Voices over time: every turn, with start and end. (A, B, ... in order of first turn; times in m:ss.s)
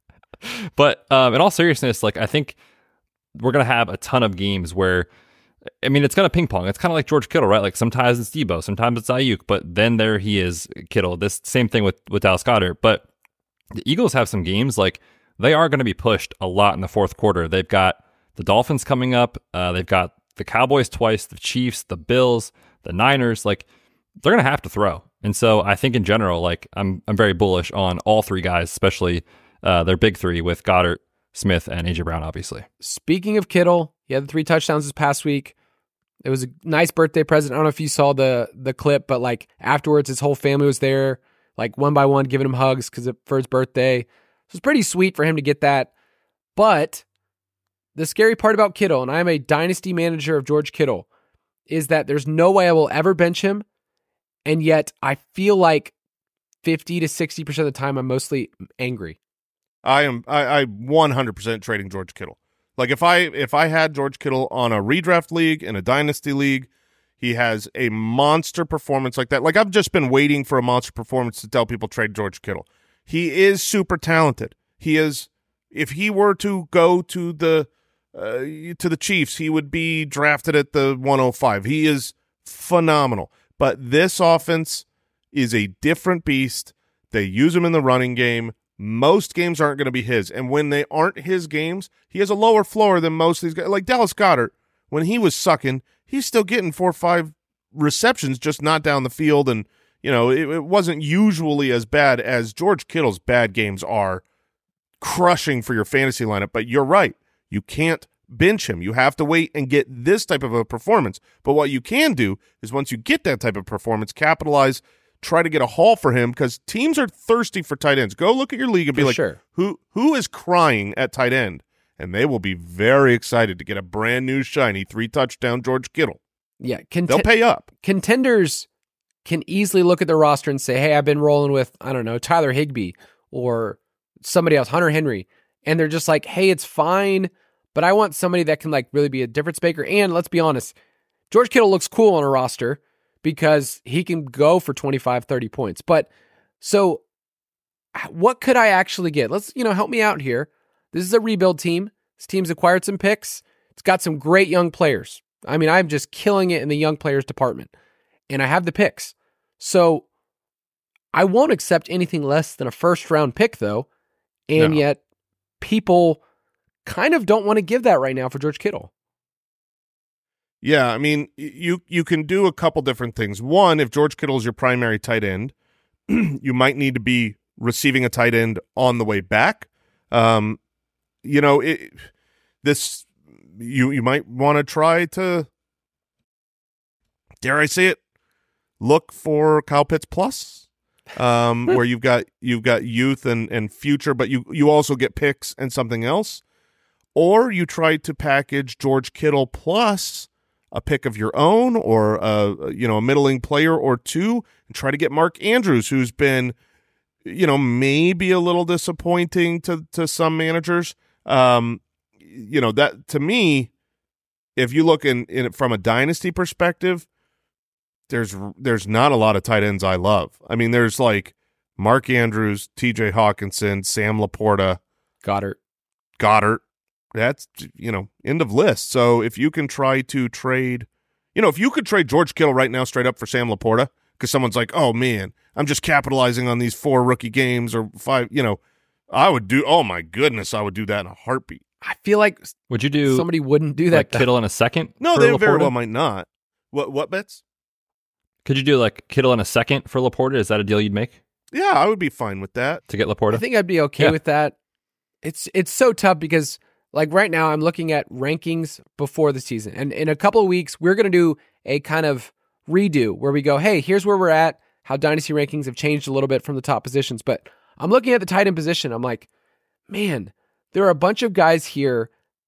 0:00.4-0:02.6 A
0:03.4-0:05.1 A
0:05.8-0:13.1 A
0:13.7-0:23.6 A
0:24.2-0:32.7 A
0:32.8-0:35.5 B
0:36.2-0:45.9 B
0:46.6-0:47.0 B
0:48.0-0:51.1 B
0:51.7-0:53.7 B
0:54.5-0:56.0 B
0:56.6-0:59.2 B
0:59.8-1:06.7 C
1:07.2-1:44.2 C
1:45.0-2:06.2 C
1:58.9-1:59.4 B
2:06.6-2:08.7 B
2:07.1-2:07.7 C
2:09.2-2:20.7 B
2:21.3-2:26.1 B
2:26.6-2:27.0 B
2:28.0-2:37.7 B
2:38.3-2:40.1 B
2:41.1-2:43.9 B
2:44.5-2:45.0 B
2:44.6-2:44.8 C
2:45.6-2:46.2 B
2:46.8-2:48.9 B
2:50.6-2:55.5 C
2:56.1-3:00.6 C
3:01.2-3:02.1 C
3:02.6-3:05.5 C
3:07.4-3:08.0 C
3:08.8-3:16.4 C
3:17.2-3:26.6 C
3:27.2-3:33.7 C
3:34.6-3:37.1 C
3:38.1-3:44.8 C
3:45.2-3:45.6 B
3:46.2-3:46.6 C
3:47.1-3:58.6 C
3:59.1-4:01.6 C
4:01.8-4:02.5 B
4:02.7-4:03.3 A
4:03.0-4:04.3 B
4:03.9-4:05.0 A
4:05.0-4:07.4 C
4:05.1-4:05.7 B
4:08.4-4:11.2 A
4:11.5-4:12.8 C
4:12.9-4:13.4 A
4:13.3-4:14.6 B
4:15.2-4:29.3 B
4:29.9-4:32.1 B